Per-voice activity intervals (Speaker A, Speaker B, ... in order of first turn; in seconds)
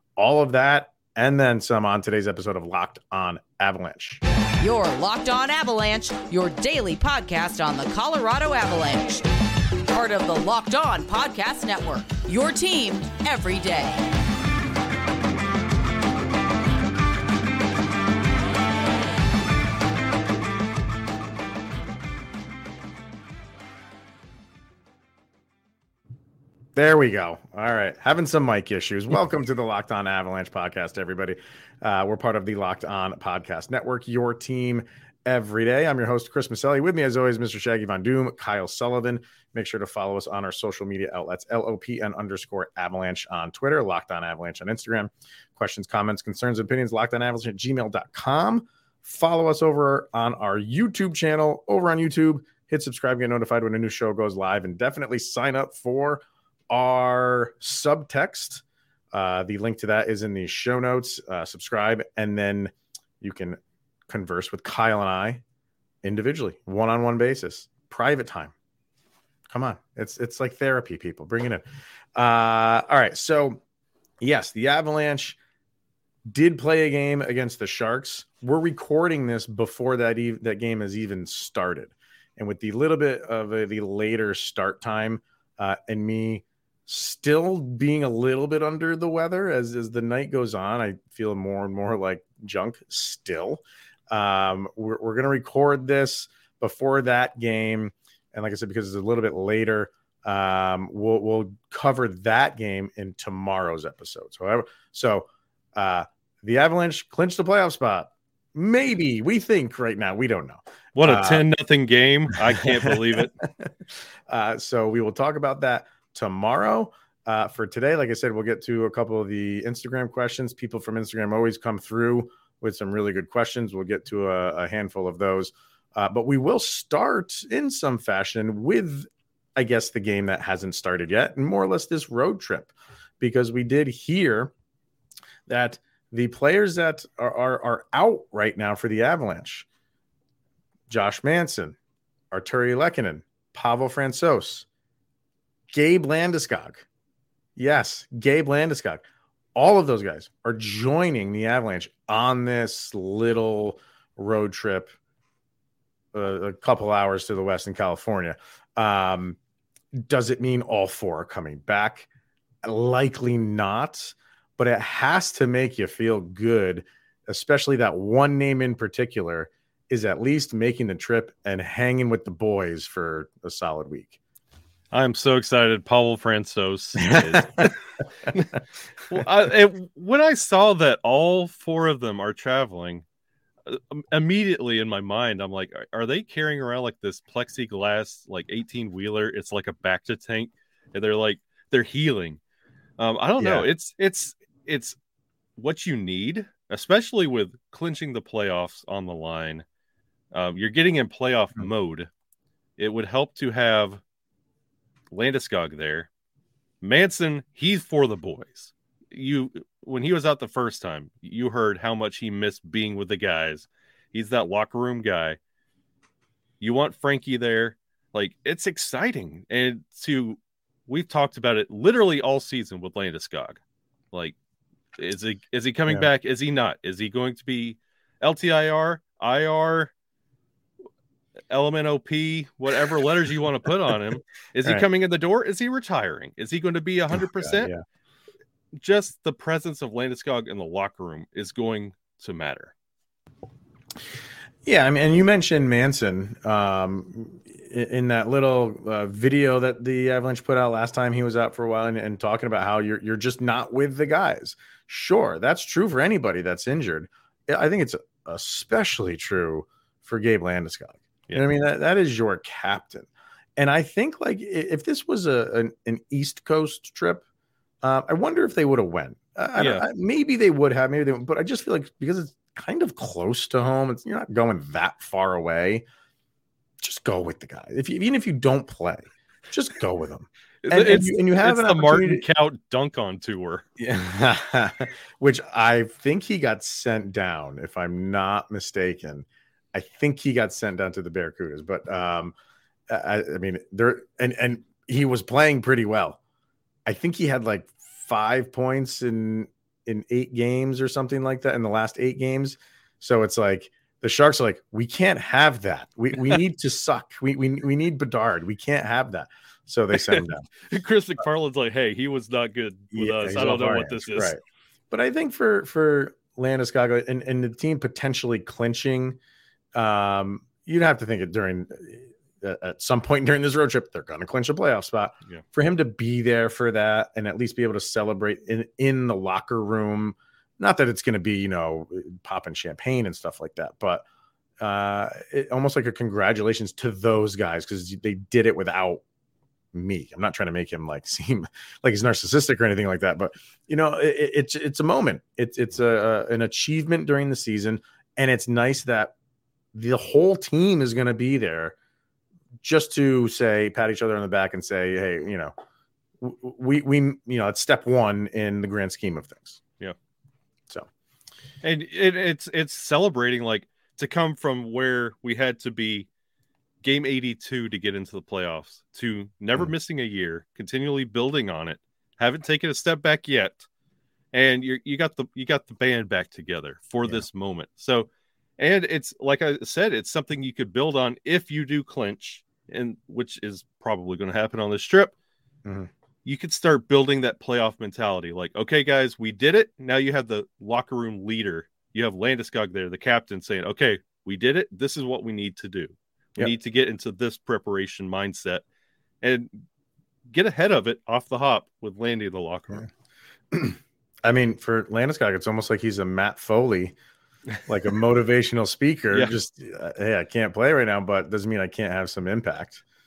Speaker A: 0.2-4.2, 26.7-65.4, 66.0-68.5, 69.5-71.6, 72.2-73.6, 74.2-75.4, 76.3-111.5, 112.6-113.7, 114.3-134.5, 135.5-139.7, 140.9-141.8, 142.3-144.7, 145.7-146.8, 147.6-149.0, 149.5-154.9, 156.1-159.4, 159.9-162.1, 162.6-174.2, 177.0-177.7, 193.4-193.7, 237.3-237.8, 244.7-267.2, 267.8-275.8, 276.8-282.2, 283.8-292.3, 292.9-296.2, 296.9-310.5, 312.9-314.4, 314.9-319.2, 319.7-334.0, 334.6-339.0, 339.7-349.1, 349.7-351.7, 352.6-355.5, 356.2-359.6, 385.6-385.9, 403.5-406.9, 407.6-412.8
Speaker B: 4.6-9.2, 9.9-14.0
Speaker C: 110.9-113.4, 174.9-177.7, 179.1-183.0, 183.6-192.4, 193.0-195.0, 195.6-199.6, 200.3-202.1, 202.8-204.0, 205.1-206.1, 206.8-215.4, 216.6-223.6, 225.0-229.9, 231.5-237.7, 238.7-242.7, 269.6-269.9, 280.6-283.6, 309.9-314.4, 361.6-366.1, 366.8-373.6, 374.3-385.1, 386.2-398.6, 399.2-399.6, 400.3-402.9